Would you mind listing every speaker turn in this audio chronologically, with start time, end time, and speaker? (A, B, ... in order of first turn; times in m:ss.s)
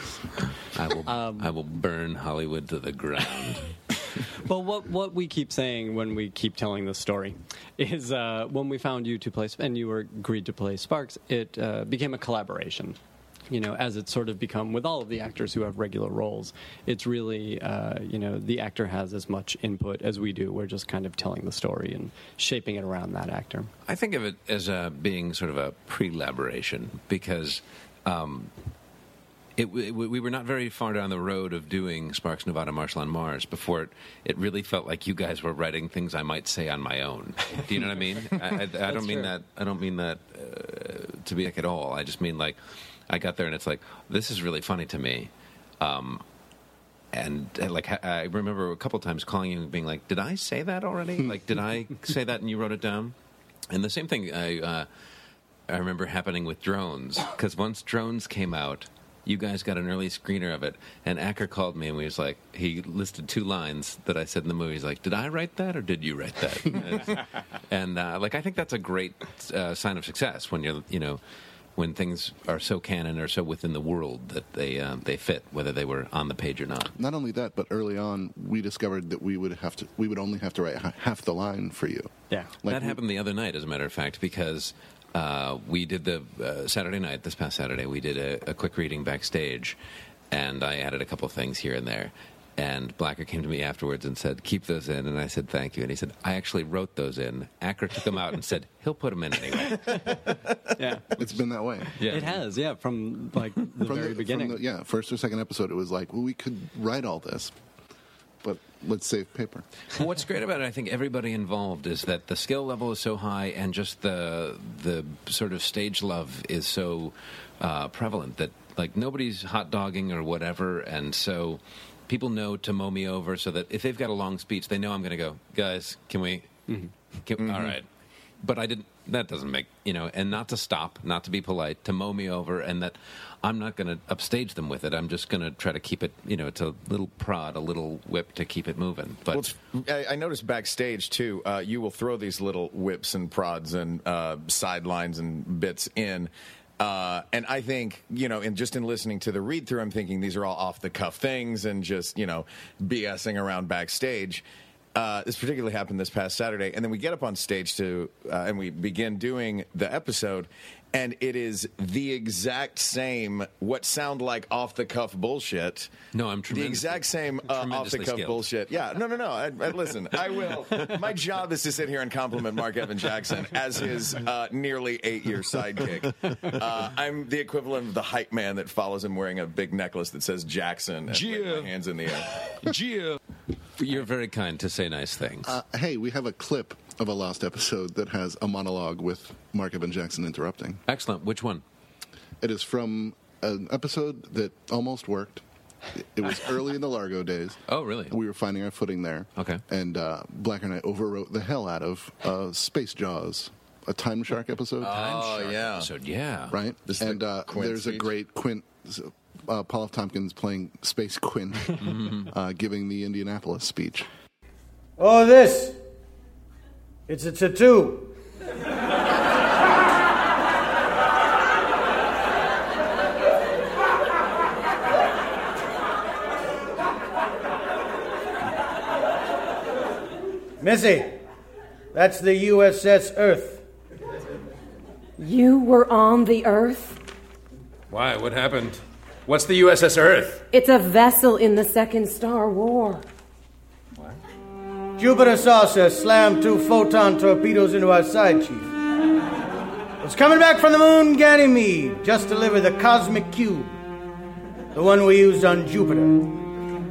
0:00.4-0:03.7 A
0:01.0-0:01.5 B
0:04.4-0:13.0 B
0:13.5-0:23.7 B
0:23.8-0:28.5 A
0:29.6-0:42.6 A
0:38.9-0:39.3 B
0:43.1-0:46.2 A
0:47.1-0:53.1 A
0:53.7-0:54.9 A
0:55.7-1:11.2 A
1:11.8-1:16.9 A
1:16.9-1:22.1 C
1:22.6-1:23.0 C
1:22.6-1:29.8 A
1:30.3-1:40.0 A
1:40.8-1:41.1 B
1:41.2-1:41.9 C
1:42.0-1:42.4 A
1:42.1-1:44.6 B
1:43.8-1:47.5 C
1:48.4-1:49.6 C
1:50.0-2:06.5 A
2:07.2-2:07.9 A
2:07.4-2:07.8 D
2:08.4-2:19.5 A
2:19.3-2:34.4 D
2:34.9-2:45.9 D
2:46.1-2:48.5 A
2:46.5-3:02.4 D
3:01.2-3:01.7 E
3:02.8-3:03.1 E
3:03.8-3:05.5 A
3:05.4-3:10.8 C
3:10.9-3:11.6 A
3:12.4-3:15.4 C
3:15.9-3:25.0 C
3:17.7-3:18.1 A
3:24.8-3:25.9 D
3:24.8-3:26.6 A
3:26.5-3:34.1 C
3:26.9-3:28.1 D
3:31.8-3:32.3 A
3:35.0-3:35.8 F
3:37.1-3:38.1 F
3:50.6-3:51.2 F
3:51.9-3:53.6 F
3:55.2-3:57.0 G
3:57.9-4:00.4 E
4:00.5-4:03.0 G
4:05.0-4:08.7 F
4:10.0-4:13.7 F
4:14.7-4:16.3 F